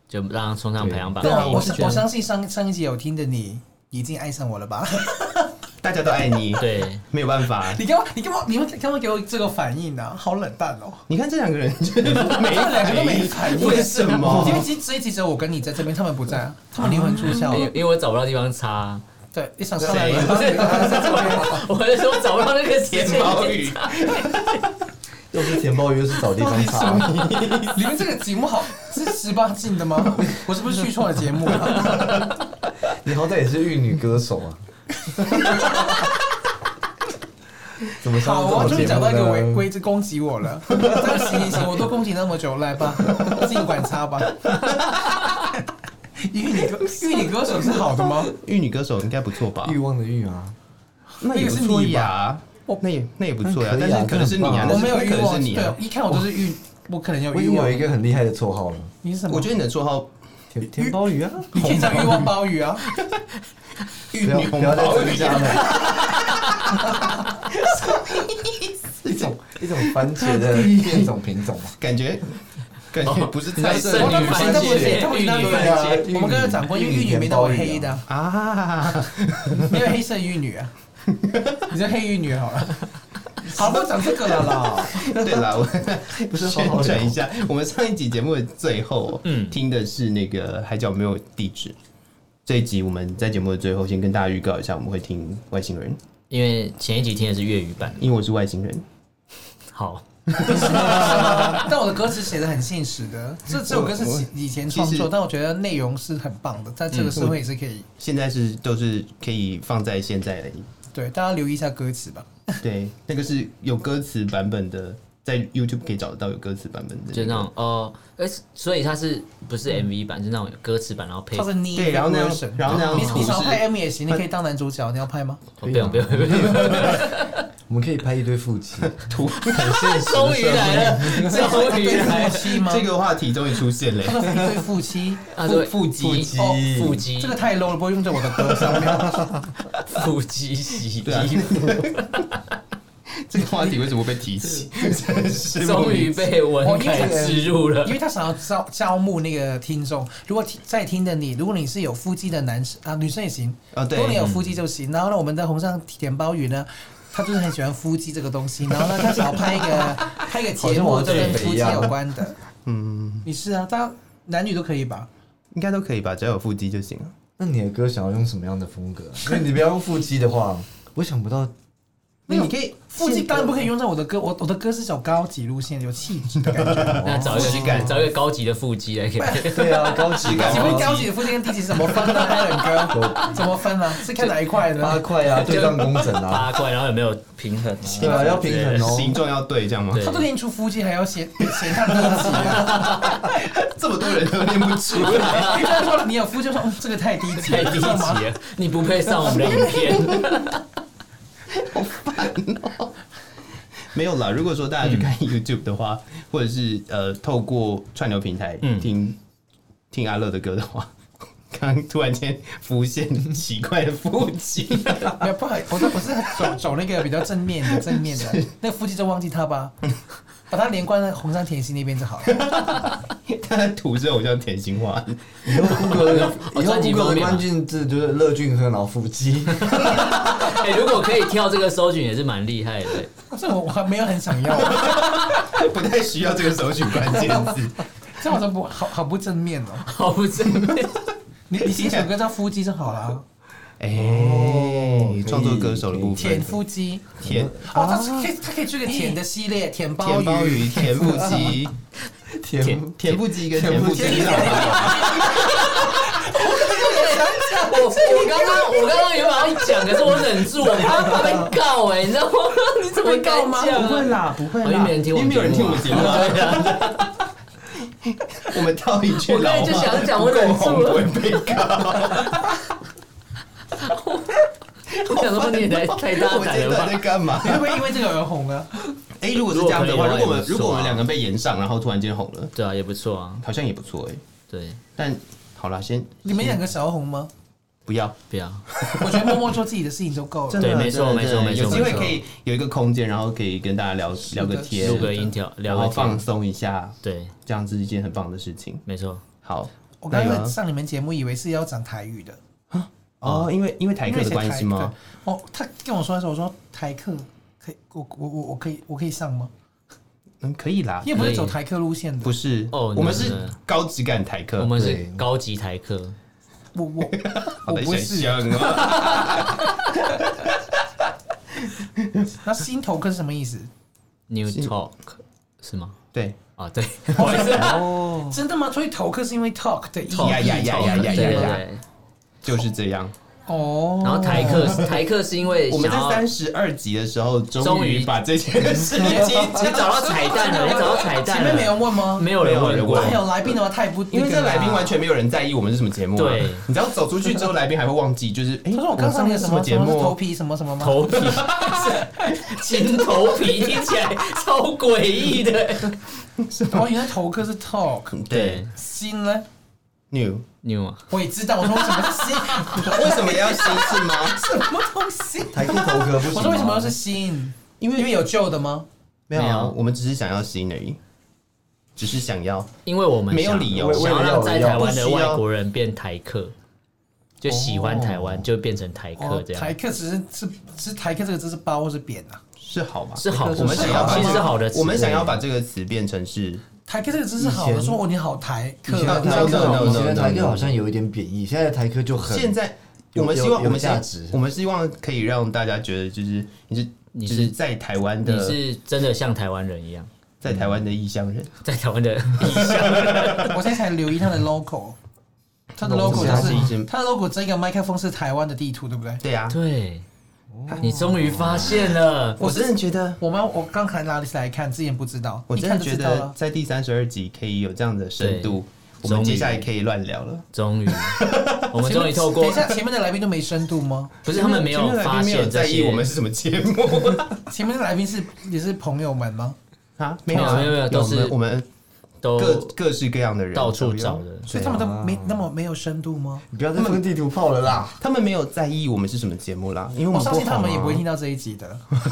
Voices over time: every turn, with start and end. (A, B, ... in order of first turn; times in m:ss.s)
0:00.1-0:02.1 A
0:00.8-0:01.2 B
0:01.2-0:01.9 C
0:01.2-0:05.5 D
0:05.8-0:07.8 C
0:06.6-0:07.0 A
0:07.6-0:11.1 D
0:11.1-0:14.7 C
0:12.2-0:17.7 D
0:14.2-0:14.7 B
0:17.2-0:19.0 A
0:19.3-0:21.7 D
0:19.8-0:20.9 C
0:20.0-0:24.4 A
0:22.9-0:24.7 C
0:25.3-0:27.3 B
0:26.3-0:27.9 C
0:27.7-0:32.2 D
0:33.0-0:35.8 B
0:38.0-0:39.7 B
0:38.2-0:44.6 D
0:44.6-0:44.9 C
0:46.2-0:48.3 D
0:48.3-0:49.8 C
0:49.6-0:50.6 B
0:51.2-0:52.1 D
0:51.2-0:55.8 C
0:53.4-0:54.9 B
0:54.6-0:57.8 D
0:57.3-0:58.9 B
0:59.0-0:59.5 D
0:59.3-1:02.1 C
1:00.5-1:02.2 B
1:01.5-1:02.8 D
1:04.1-1:06.1 C
1:04.2-1:06.0 B
1:05.7-1:06.8 A
1:07.5-1:11.1 C
1:09.0-1:11.8 B
1:11.8-1:14.9 C
1:13.0-1:16.1 A
1:13.6-1:18.0 B
1:13.9-1:18.0 D
1:18.1-1:19.7 C
1:19.6-1:20.7 D
1:21.2-1:21.6 C
1:21.7-1:22.9 D
1:23.4-1:25.0 D
1:24.8-1:31.7 C
1:25.0-1:25.4 B
1:26.2-1:27.2 B
1:29.2-1:29.6 A
1:32.4-1:36.0 C
1:36.3-1:38.0 A
1:38.0-1:38.8 C
1:39.7-1:41.6 A
1:40.3-1:41.4 C
1:40.4-1:47.8 D
1:43.5-1:45.1 C
1:47.0-1:47.4 C
1:48.0-1:50.7 C
1:50.9-1:52.6 D
1:52.6-1:57.5 C
1:57.1-2:01.5 A
2:01.3-2:05.4 D
2:01.7-2:03.6 C
2:02.7-2:03.3 A
2:05.6-2:07.4 A
2:05.6-2:11.4 B
2:09.0-2:14.4 C
2:09.4-2:12.6 A
2:11.1-2:12.9 D
2:14.0-2:15.2 D
2:15.3-2:17.4 A
2:15.4-2:16.3 C
2:16.0-2:17.0 B
2:16.4-2:19.2 D
2:18.7-2:19.5 B
2:19.7-2:22.2 A
2:21.0-2:22.1 C
2:23.2-2:26.3 C
2:25.6-2:28.0 A
2:26.6-2:42.4 D
2:26.8-2:27.5 B
2:33.7-2:34.2 C
2:34.2-2:34.5 A
2:40.6-2:41.9 B
2:42.6-2:43.2 C
2:43.2-2:45.1 D
2:45.5-2:47.1 C
2:47.4-2:51.5 B
2:52.3-2:53.7 C
2:52.3-2:57.5 D
2:56.5-2:58.0 C
2:56.8-2:58.0 B
2:57.0-2:59.8 A
2:59.2-3:05.1 D
2:59.5-3:01.0 B
3:00.2-3:02.4 C
3:02.9-3:03.4 B
3:04.8-3:06.6 B
3:05.3-3:08.9 A
3:07.9-3:09.2 B
3:07.9-3:10.0 C
3:09.9-3:10.3 A
3:10.0-3:13.0 D
3:11.6-3:15.7 C
3:12.2-3:13.3 A
3:14.9-3:15.9 A
3:15.1-3:18.2 D
3:17.4-3:20.6 A
3:21.5-3:22.9 C
3:23.9-3:29.2 C
3:24.8-3:25.1 A
3:28.6-3:28.9 A
3:29.9-3:30.9 C
3:31.5-3:35.3 C
3:35.2-3:39.7 D
3:37.7-3:38.4 C
3:40.5-3:42.4 D
3:42.2-3:45.9 C
3:45.4-3:50.2 B
3:45.6-3:47.5 A
3:49.6-3:53.1 A
3:53.3-3:55.2 D
3:54.9-3:57.8 C
3:58.2-3:59.9 D
3:59.8-4:01.0 A
4:00.5-4:00.9 C
4:01.5-4:03.2 D
4:01.6-4:02.1 C
4:03.8-4:06.5 C
4:03.9-4:06.6 B
4:06.2-4:11.2 D
4:07.2-4:07.6 C
4:07.2-4:08.3 B
4:10.0-4:11.7 C
4:11.0-4:11.5 B
4:12.3-4:15.8 B
4:12.6-4:12.9 A
4:13.0-4:15.3 C
4:13.9-4:20.2 D
4:14.3-4:27.2 A
4:20.8-4:21.1 D
4:20.8-4:21.5 B
4:22.9-4:23.9 D
4:23.7-4:27.1 C
4:28.0-4:32.6 C
4:29.2-4:32.6 A
4:33.7-4:37.1 A
4:34.9-4:38.0 C
4:37.4-4:38.8 D
4:39.2-4:42.5 C
4:39.5-4:41.0 A
4:42.5-4:43.4 A
4:43.4-4:44.2 C
4:44.5-4:44.8 A
4:45.0-4:46.6 C
4:46.2-4:47.3 D
4:47.8-4:48.2 C
4:48.3-4:48.6 A
4:48.7-4:49.4 C
4:48.9-4:50.7 D
4:50.5-4:58.8 C
4:50.6-4:52.2 A
4:51.7-4:52.0 D
4:54.3-4:55.3 D
4:54.8-4:56.2 A
4:57.0-4:57.3 A
4:58.8-4:59.2 A
4:59.4-5:00.5 C
5:00.0-5:02.4 D
5:02.7-5:04.9 C
5:03.2-5:03.5 A
5:04.0-5:09.5 D
5:10.4-5:11.3 C
5:11.0-5:12.4 D
5:11.1-5:11.5 A
5:12.2-5:14.7 C
5:12.7-5:13.6 A
5:14.6-5:16.2 A
5:14.7-5:15.2 B
5:16.7-5:18.8 D
5:17.1-5:20.6 C
5:18.9-5:19.3 A
5:21.6-5:22.3 C
5:22.4-5:23.7 D
5:24.3-5:26.0 A
5:26.1-5:26.4 C
5:26.6-5:27.8 A
5:27.1-5:31.6 D
5:27.5-5:28.4 B
5:30.1-5:31.8 A
5:30.2-5:31.6 C
5:32.4-5:33.1 C
5:33.5-5:34.8 D
5:34.0-5:36.2 A
5:34.3-5:34.9 C
5:35.7-5:40.1 C
5:37.6-5:38.1 A
5:39.0-5:43.2 A
5:39.2-5:42.3 D
5:42.4-5:43.5 C
5:42.8-5:45.0 D
5:44.1-5:50.2 C
5:46.2-5:46.6 A
5:48.7-5:52.4 D
5:50.8-5:56.0 A
5:51.2-5:51.9 C
5:56.4-5:57.0 C
5:56.7-5:58.2 D
5:58.1-5:58.6 C
5:58.3-5:58.7 A
5:58.7-5:59.4 D
6:00.1-6:00.4 C
6:00.6-6:01.1 A
6:01.1-6:08.8 D
6:02.6-6:04.4 C
6:05.5-6:07.0 B
6:07.8-6:08.1 C
6:09.3-6:11.0 C
6:09.3-6:09.7 A
6:12.0-6:12.7 C
6:12.8-6:16.5 A
6:13.3-6:15.4 C
6:13.7-6:15.0 B
6:17.4-6:19.8 A
6:17.4-6:18.5 B
6:19.2-6:22.4 D
6:22.6-6:26.6 C
6:23.2-6:25.4 A
6:23.2-6:24.4 B
6:23.7-6:24.5 D
6:26.9-6:29.9 D
6:27.4-6:28.0 B
6:28.9-6:32.6 B
6:29.0-6:30.7 C
6:29.3-6:30.1 A
6:32.2-6:38.6 C
6:33.1-6:34.4 B
6:37.1-6:37.5 A
6:38.2-6:40.1 A
6:40.4-6:41.5 C
6:40.5-6:40.8 B
6:41.6-6:43.6 A
6:42.4-6:43.6 C
6:43.4-6:45.0 D
6:45.8-6:49.2 D
6:45.9-6:46.7 B
6:45.9-6:46.9 C
6:49.2-6:49.6 C
6:49.5-6:50.0 A
6:50.5-6:51.8 B
6:50.8-6:52.4 A
6:52.4-6:53.2 C
6:52.4-6:56.3 D
6:55.5-7:01.7 C
6:58.2-6:59.7 A
7:00.5-7:02.7 A
7:01.8-7:04.1 D
7:04.2-7:06.1 A
7:04.2-7:07.4 C
7:07.4-7:09.6 D
7:10.0-7:11.6 C
7:10.3-7:11.3 A
7:12.2-7:12.7 A
7:12.4-7:14.8 C
7:13.5-7:14.4 A
7:14.5-7:16.4 D
7:14.6-7:15.5 B
7:16.5-7:18.0 B
7:16.7-7:17.0 C
7:17.7-7:21.0 C
7:20.1-7:21.8 D